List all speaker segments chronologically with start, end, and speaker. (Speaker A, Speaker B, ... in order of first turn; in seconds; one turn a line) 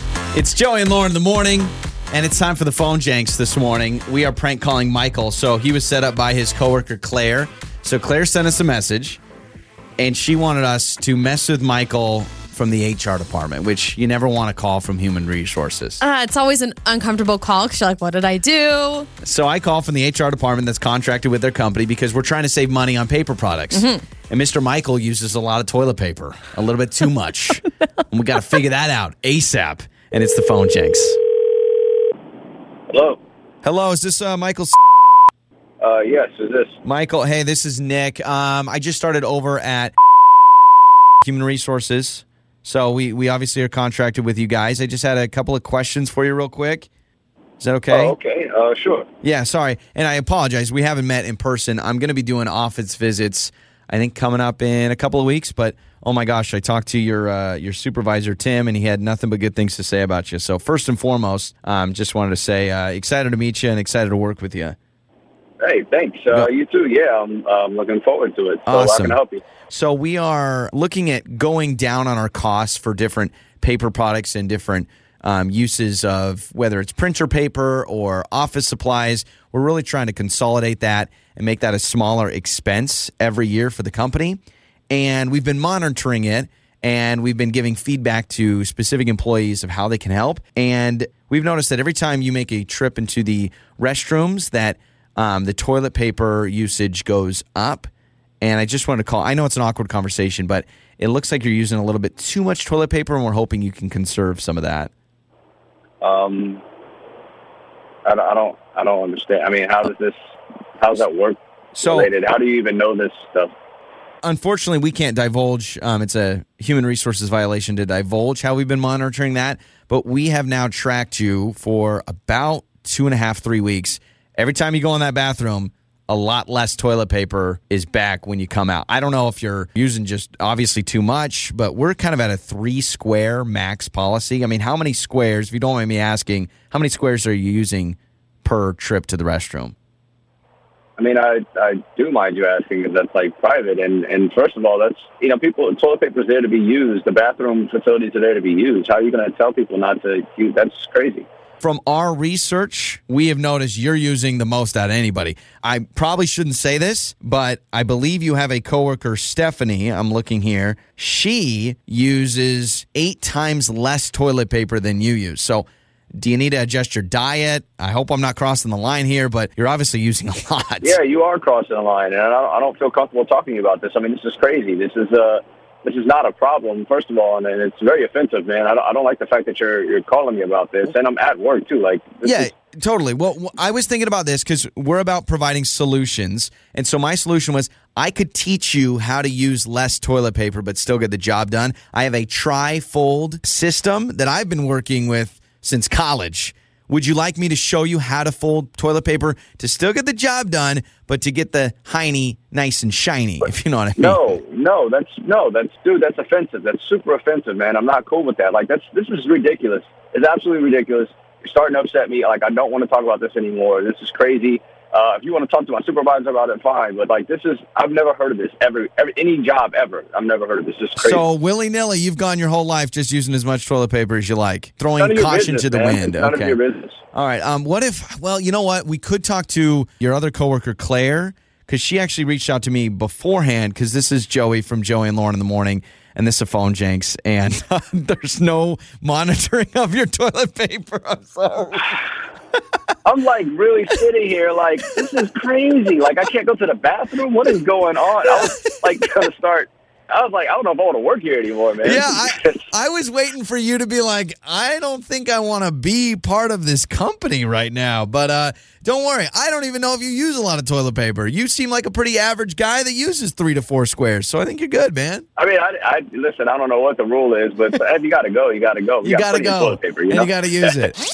Speaker A: 0.3-9.2
Speaker A: 10.0-16.0
Speaker B: 16.0-19.1
Speaker A: 19.2-31.2
Speaker B: 23.7-24.0
Speaker C: 32.9-33.2
Speaker A: 33.6-34.7
Speaker C: 35.8-36.8
Speaker A: 36.8-39.9
Speaker A: 41.2-46.9
Speaker A: 47.6-48.1
Speaker C: 47.9-49.1
Speaker A: 49.2-64.8
Speaker C: 65.6-69.4
Speaker A: 68.7-69.2
Speaker A: 69.7-97.9
Speaker A: 98.4-104.9
Speaker C: 106.0-106.6
Speaker C: 108.0-110.2
Speaker C: 110.8-113.5
Speaker A: 111.8-112.1
Speaker A: 114.2-139.7
Speaker C: 141.0-151.3
Speaker A: 151.6-171.0
Speaker C: 170.8-182.5
Speaker A: 182.2-204.4
Speaker C: 204.0-221.2
Speaker A: 221.0-226.6
Speaker C: 225.0-227.0
Speaker A: 227.1-242.0
Speaker C: 243.0-252.6
Speaker A: 248.7-248.9
Speaker A: 251.8-265.2
Speaker C: 265.4-270.9
Speaker A: 269.0-270.9